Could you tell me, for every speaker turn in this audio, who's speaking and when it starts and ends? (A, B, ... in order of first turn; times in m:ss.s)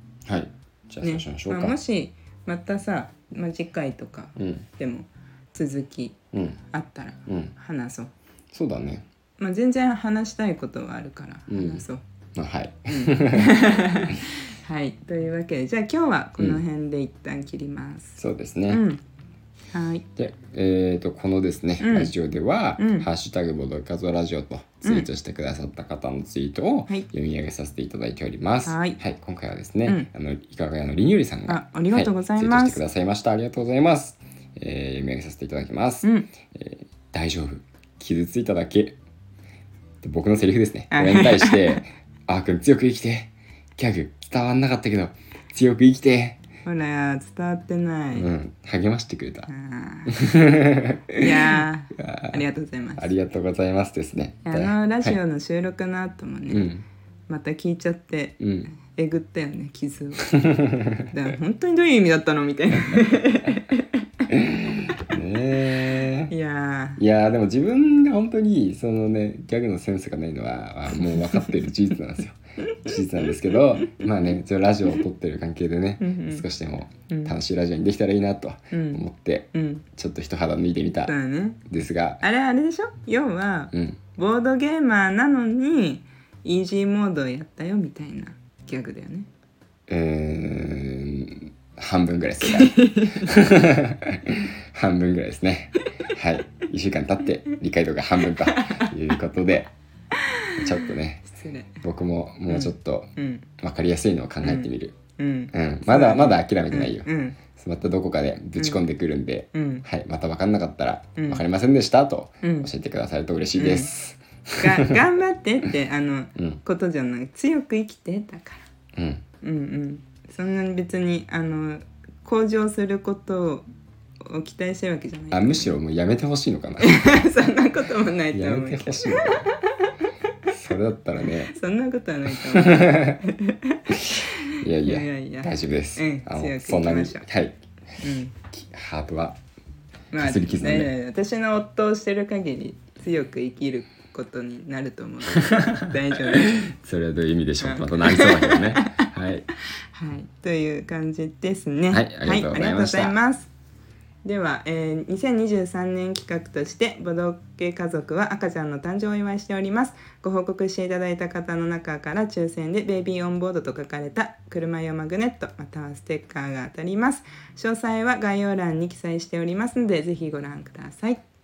0:00.2-0:01.8 A
0:01.0-0:08.1 B
0:04.4-0:04.6 A
0:06.3-0:06.6 A
0:07.3-0:07.5 A
0:08.5-0:09.1 A
0:09.4-0:12.0 B
0:11.5-0:11.8 A
0:12.4-0:14.2 A
0:12.9-0:19.0 B
0:18.2-0:18.9 A
0:19.7-0:20.0 B
0:20.2-0:39.0 A
0:21.8-0:22.1 B
0:22.8-0:23.1 B
0:28.7-0:29.0 B
0:31.5-0:32.8 B
0:36.0-0:36.3 B
0:40.0-0:46.4 A
0:40.9-0:41.8 B
0:46.6-0:48.3 B
0:48.1-0:49.5 A
0:49.5-0:50.5 B
0:50.1-0:52.4 A
0:51.2-0:53.1 B
0:53.0-0:55.2 A
0:54.4-0:56.7 B
0:56.5-0:56.8 A
0:57.3-1:04.3 B
0:58.4-0:58.7 A
1:00.3-1:01.1 A
1:04.3-1:06.3 A
1:06.3-1:07.0 B
1:07.0-1:21.1 A
1:11.0-1:11.6 B
1:12.7-1:14.0 B
1:16.0-1:16.4 B
1:17.1-1:17.4 B
1:18.7-1:19.8 B
1:21.1-1:21.6 B
1:21.6-1:22.2 A
1:22.2-1:29.3 B
1:23.7-1:24.0 A
1:29.9-1:39.7 A
1:32.4-1:33.4 B
1:35.8-1:36.2 B
1:38.4-1:38.9 B
1:40.1-1:41.8 B
1:40.5-1:41.3 A
1:41.8-1:45.0 A
1:42.5-1:43.5 B
1:44.4-1:47.4 B
1:45.5-1:55.0 A
1:48.6-1:48.8 B
1:49.5-1:49.9 B
1:51.2-1:51.4 B
1:52.4-1:52.7 B
1:53.6-1:53.9 B
1:54.6-1:58.7 B
1:59.0-1:59.2 A
1:59.4-2:03.6 B
2:04.2-2:05.7 B
2:05.3-2:07.2 A
2:06.8-2:10.0 B
2:08.3-2:09.4 A
2:10.5-2:11.5 A
2:11.2-2:17.3 B
2:12.3-2:13.2 A
2:13.9-2:17.6 A
2:18.0-2:18.4 B
2:18.5-2:19.4 A
2:20.1-2:26.6 B
2:20.2-2:20.9 A
2:25.4-2:29.5 A
2:27.6-2:29.1 B
2:29.9-2:33.5 B
2:31.9-2:33.2 A
2:34.2-2:51.2 B